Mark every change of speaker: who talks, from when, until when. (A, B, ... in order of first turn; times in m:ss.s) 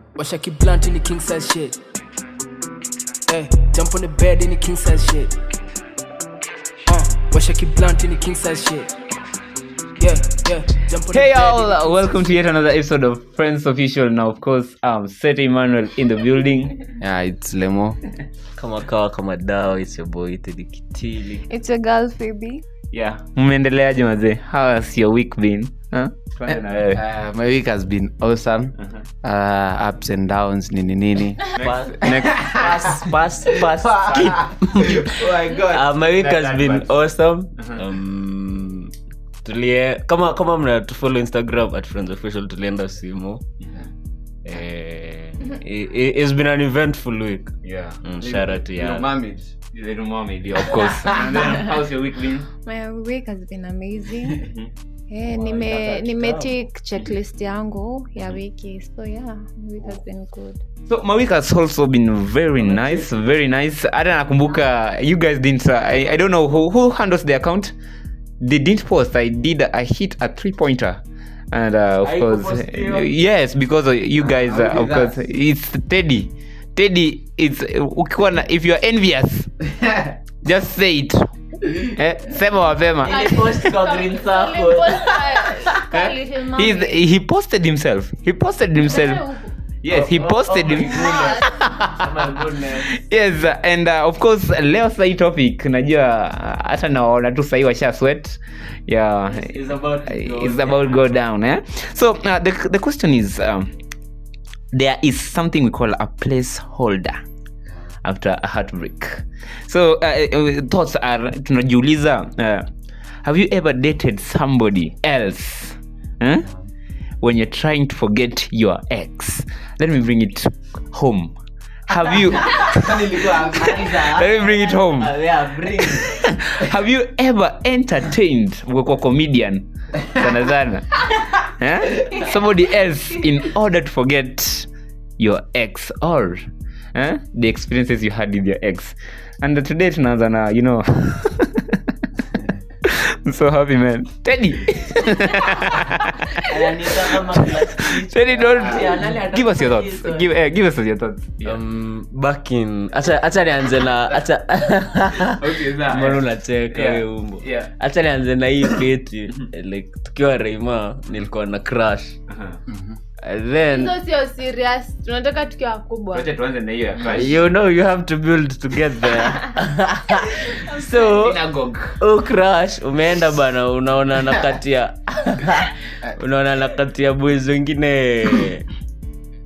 0:00.2-0:01.8 A
0:03.3-0:05.3 A
0:06.9-0:08.9 A
0:10.0-0:12.2 A
0:11.1-0:16.8 B
0:17.0-0:18.0 C
0:18.6-0:21.4 D
0:21.5-0:22.6 E
0:22.9-0:27.0 B
0:26.9-0:31.4 C
0:31.6-0:32.7 B
0:31.6-0:35.1 D
0:32.1-0:35.9 C
0:34.1-0:35.1 B
0:35.7-0:38.9 D
0:36.1-0:36.9 B
0:39.4-0:43.4 D
0:43.6-0:43.9 B
0:44.4-0:49.1 D
0:47.6-0:48.0 B
0:48.2-0:49.5 C
0:49.7-0:52.5 B
0:51.2-0:51.4 D
0:52.6-0:54.4 E
0:54.4-0:54.7 B
0:55.1-1:00.6 E
0:55.3-0:56.6 D
1:00.9-1:07.7 B
1:02.6-1:03.2 D
1:08.4-1:19.7 B
1:12.0-1:13.1 D
1:14.2-1:15.2 C
1:20.4-1:23.6 B
1:23.0-1:25.2 D
1:23.0-1:27.0 E
1:25.8-1:29.2 B
1:28.8-1:29.5 E
1:29.8-1:32.3 B
1:29.9-1:33.0 D
1:30.9-1:31.6 E
1:33.0-1:39.6 B
1:39.3-1:41.0 D
1:40.1-1:43.7 B
1:44.7-1:47.2 B
1:48.0-1:52.7 B
1:53.2-1:56.5 B
1:57.2-2:01.3 B
2:01.9-2:05.2 B
2:02.6-2:03.9 C
2:03.1-2:06.2 D
2:05.8-2:16.4 B
2:16.9-2:21.8 B
2:22.8-2:31.6 B
2:26.4-2:30.3 D
2:31.4-2:42.2 D
2:35.3-2:37.7 B
2:42.3-2:42.6 B
2:42.7-2:43.0 C
2:43.2-2:43.9 D
2:43.7-2:46.3 E
2:46.1-2:47.4 B
2:47.0-2:51.5 D
2:50.5-2:51.2 E
2:51.0-2:52.0 B
2:52.0-2:58.7 D